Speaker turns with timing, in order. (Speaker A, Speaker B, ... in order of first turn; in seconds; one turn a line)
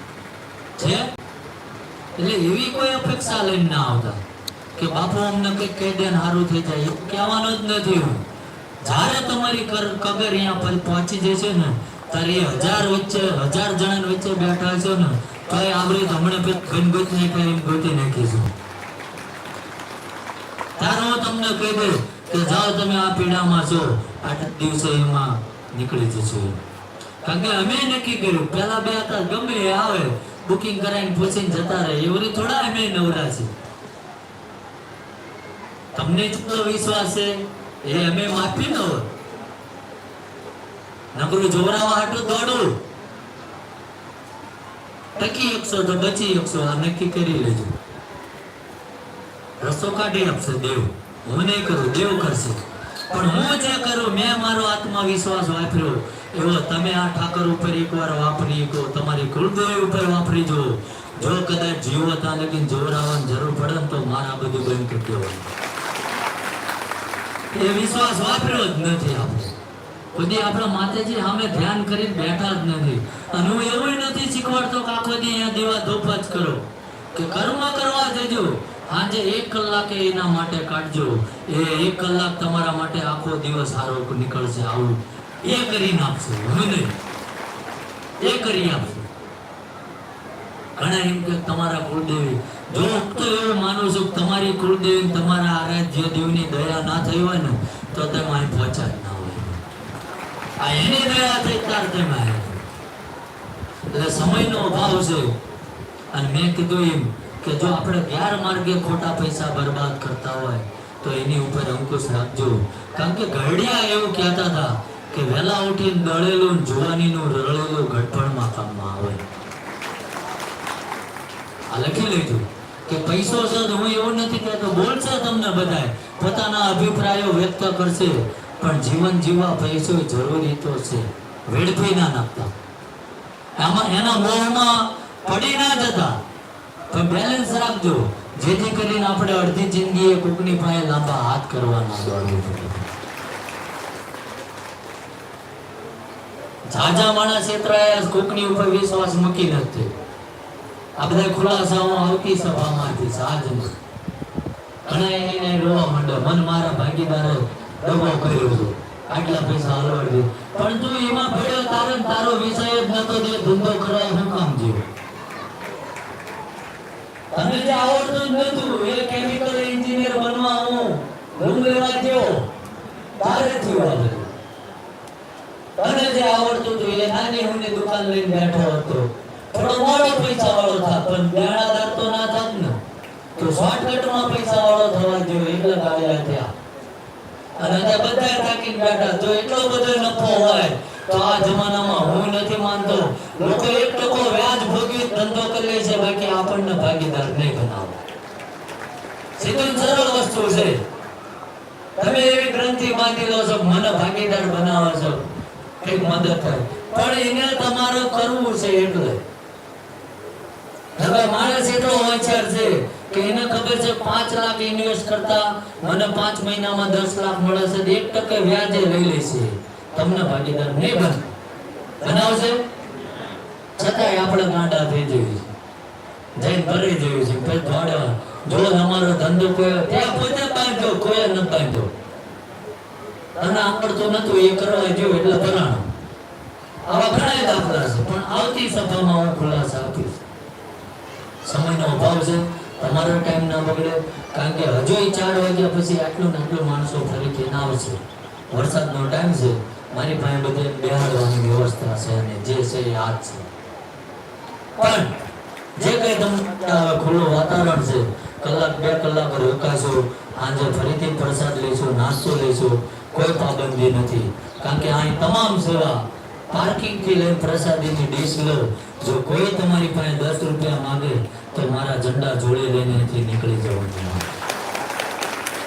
Speaker A: 0.8-1.1
Speaker A: 2.2-4.2
Speaker A: 4.8-8.2
Speaker A: 8.8-18.5
Speaker A: 20.8-26.6
Speaker A: 27.2-33.5
Speaker A: 35.9-39.1
Speaker A: 41.1-42.8
Speaker A: 45.1-47.8
Speaker A: 49.6-65.5
Speaker A: 67.5-69.5
Speaker A: 70.1-87.0
Speaker A: 88.2-89.1
Speaker A: 90.8-99.6
Speaker A: 100.6-102.7
Speaker A: 103.9-105.4
Speaker A: 106.1-119.2
Speaker A: 121.7-132.5
Speaker A: 133.6-136.2
Speaker A: 136.9-142.9
Speaker A: 146.7-149.9
Speaker A: 151.0-153.8
Speaker A: 154.8-164.8
Speaker A: 167.3-172.5
Speaker A: 173.2-174.3
Speaker A: 175.8-182.8
Speaker A: 183.3-186.5
Speaker A: 187.6-198.0
Speaker A: 199.4-200.8
Speaker A: 202.0-205.3
Speaker A: 205.8-209.2
Speaker A: 210.9-221.3
Speaker A: 222.0-222.6
Speaker A: 223.8-225.5
Speaker A: 226.4-231.9
Speaker A: 233.4-235.9
Speaker A: 236.8-240.2
Speaker A: 241.4-253.4
Speaker A: 254.8-255.2
Speaker A: 255.8-274.3